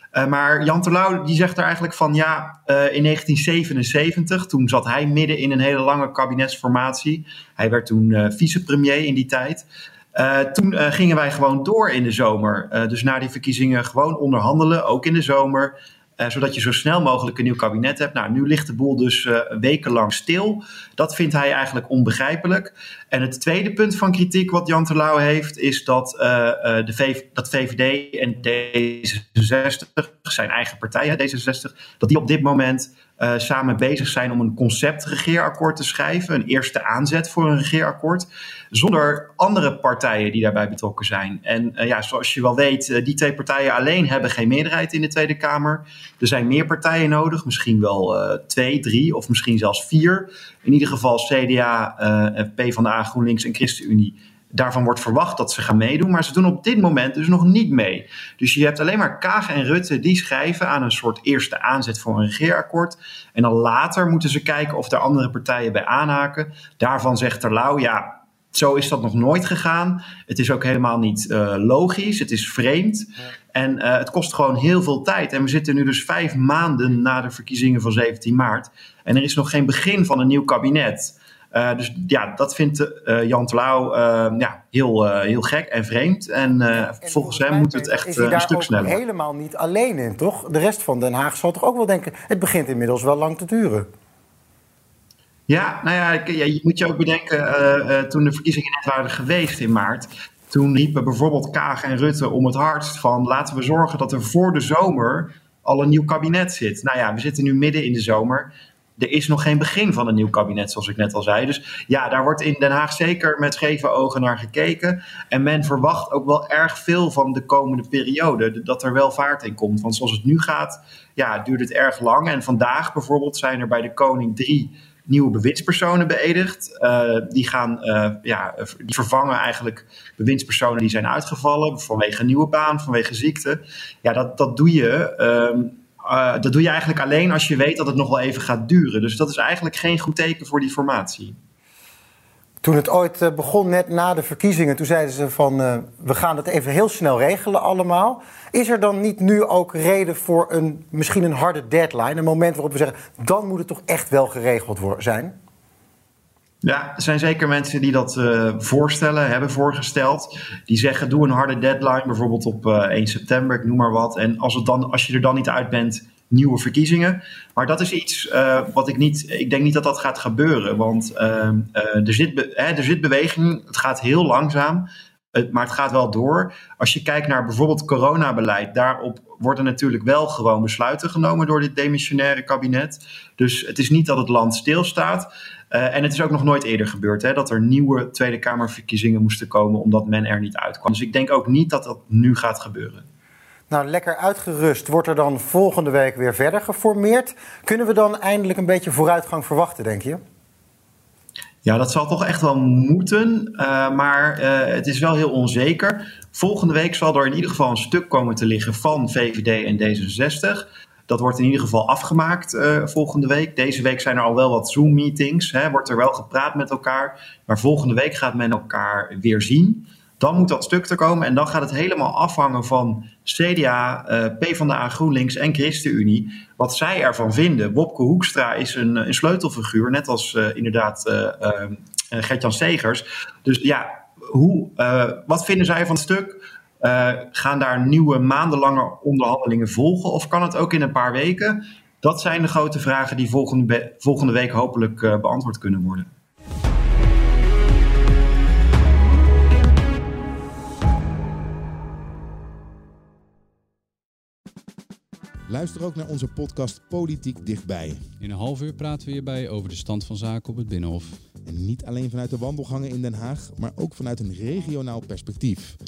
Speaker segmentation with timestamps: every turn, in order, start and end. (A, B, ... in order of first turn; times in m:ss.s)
0:00.1-1:29.0 A
1:26.7-1:33.9 B
1:35.5-2:21.4 A
2:22.6-2:35.3 B
2:36.6-3:13.1 A
3:13.7-3:20.2 B
3:21.6-4:06.1 A
4:15.5-4:18.1 C
4:18.2-4:21.2 D
4:21.4-4:25.8 C